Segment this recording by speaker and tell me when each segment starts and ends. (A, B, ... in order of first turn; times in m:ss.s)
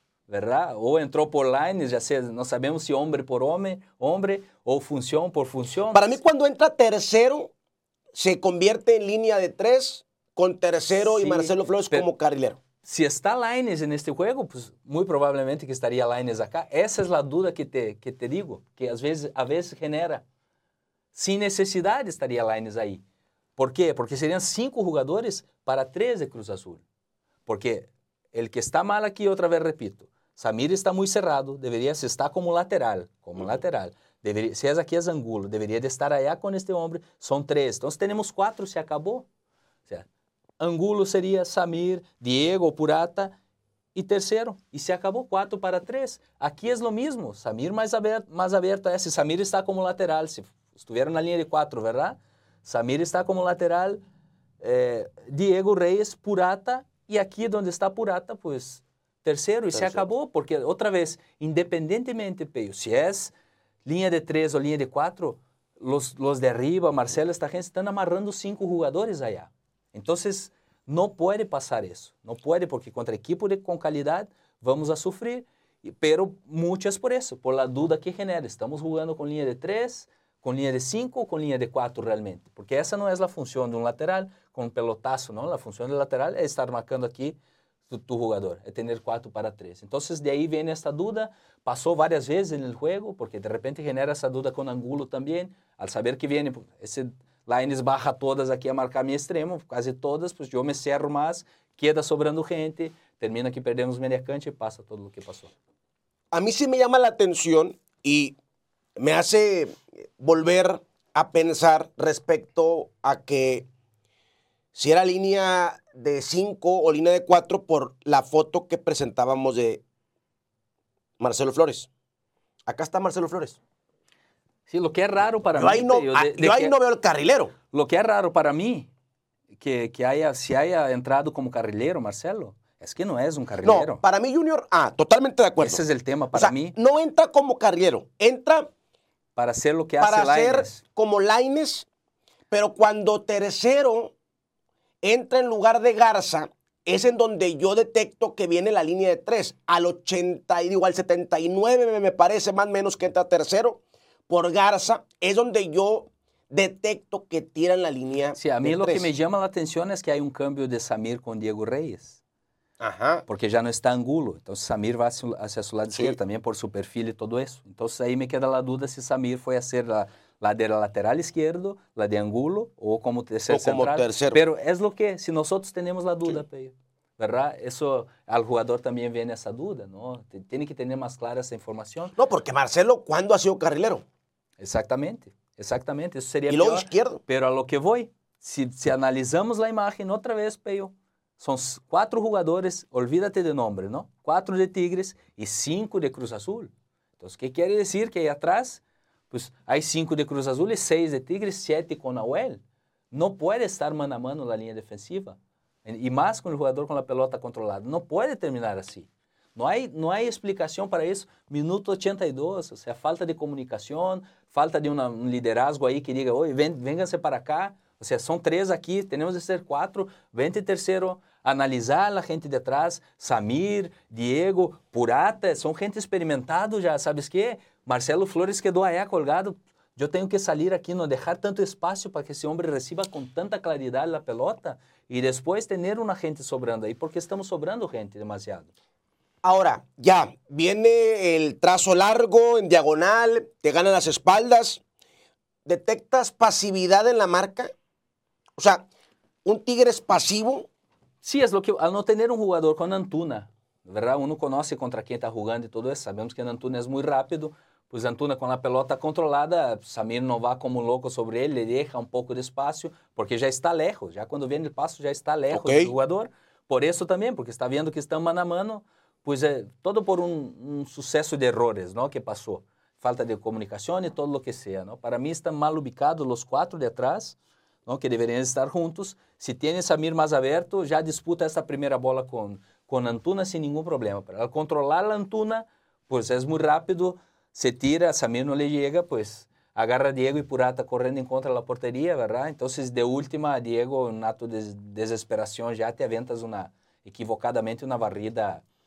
0:00.3-0:06.2 A
0:05.9-0:07.5 B
0:08.1-0:12.6 B
0:11.0-0:12.1 A
0:12.8-0:20.2 A
0:21.1-0:23.0 A
0:23.6-0:26.8 A
0:27.5-0:39.3 A
0:40.6-0:43.3 A
0:44.0-0:54.0 A
0:54.6-1:03.3 A
0:59.7-1:00.0 B
1:03.8-1:27.4 A
1:27.9-1:45.5 A
1:46.3-1:48.4 B
1:49.0-1:53.7 B
1:54.8-1:59.8 B
2:01.2-2:01.9 B
2:02.7-2:03.6 B
2:04.7-2:06.7 A
2:05.6-2:07.5 B
2:07.7-2:08.9 A
2:09.6-2:14.0 A
2:13.6-2:15.8 B
2:15.6-2:16.8 A
2:16.3-2:18.7 B
2:19.4-2:20.8 A
2:20.0-2:21.9 B
2:22.5-2:24.1 B
2:25.0-2:39.1 B
2:38.4-2:42.2 A
2:42.8-2:43.2 B
2:43.3-3:02.2 A
2:53.5-2:54.4 B
3:02.2-3:04.0 B
3:04.6-3:22.6 A
3:06.5-3:07.2 B
3:23.1-3:58.7 A
3:59.4-4:04.8 B
4:05.7-4:07.7 B
4:08.6-4:08.9 B
4:09.4-4:10.7 B
4:11.2-4:58.6 A
4:25.5-4:25.9 B